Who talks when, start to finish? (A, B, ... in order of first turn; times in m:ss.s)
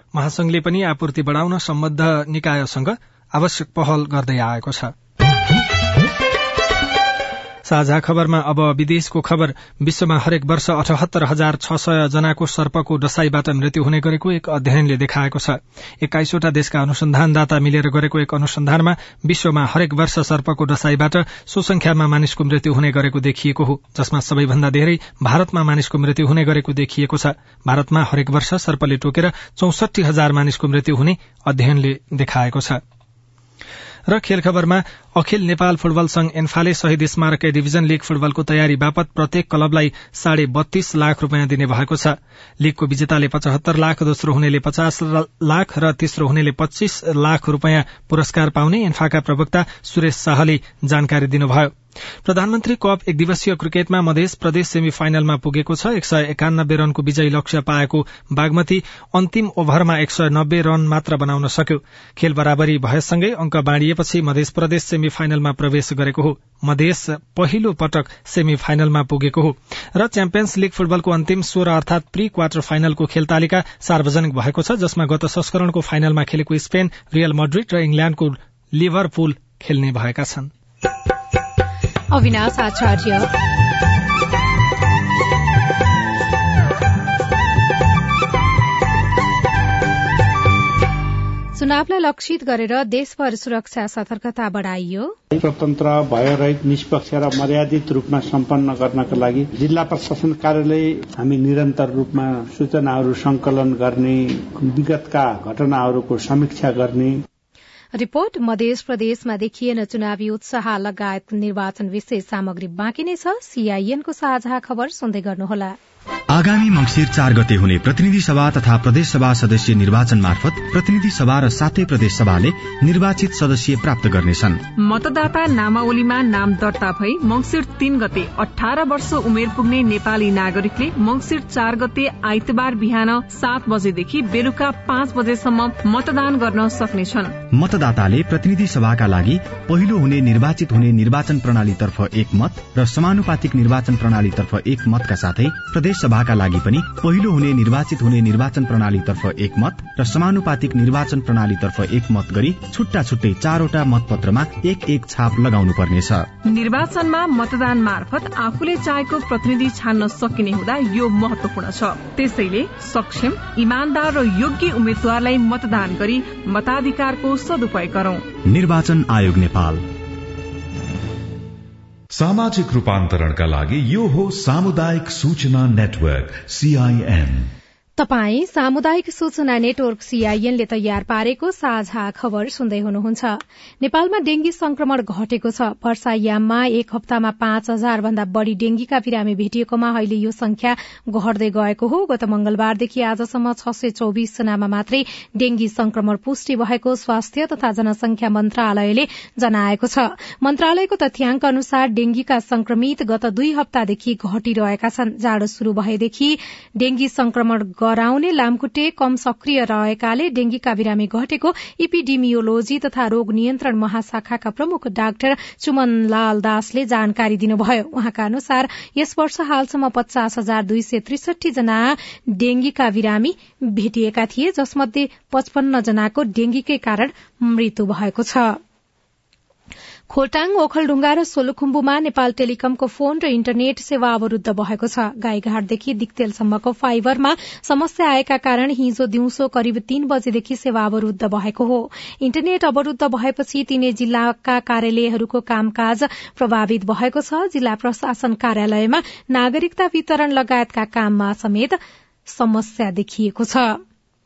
0:00.1-0:04.9 A
0:07.6-0:32.8 A
0:34.1-0:51.7 A
0:52.2-1:20.5 A
1:22.1-1:23.3 B
1:31.5-1:35.1 B
1:35.3-1:47.2 C
1:47.9-1:55.8 B
1:56.3-2:04.6 D
2:04.8-2:17.4 E
2:17.5-2:36.3 D
2:36.4-2:48.2 E
2:48.4-2:49.8 D
2:52.1-2:57.5 F
2:58.0-3:48.6 B
3:50.1-4:11.8 B
4:12.3-4:13.8 B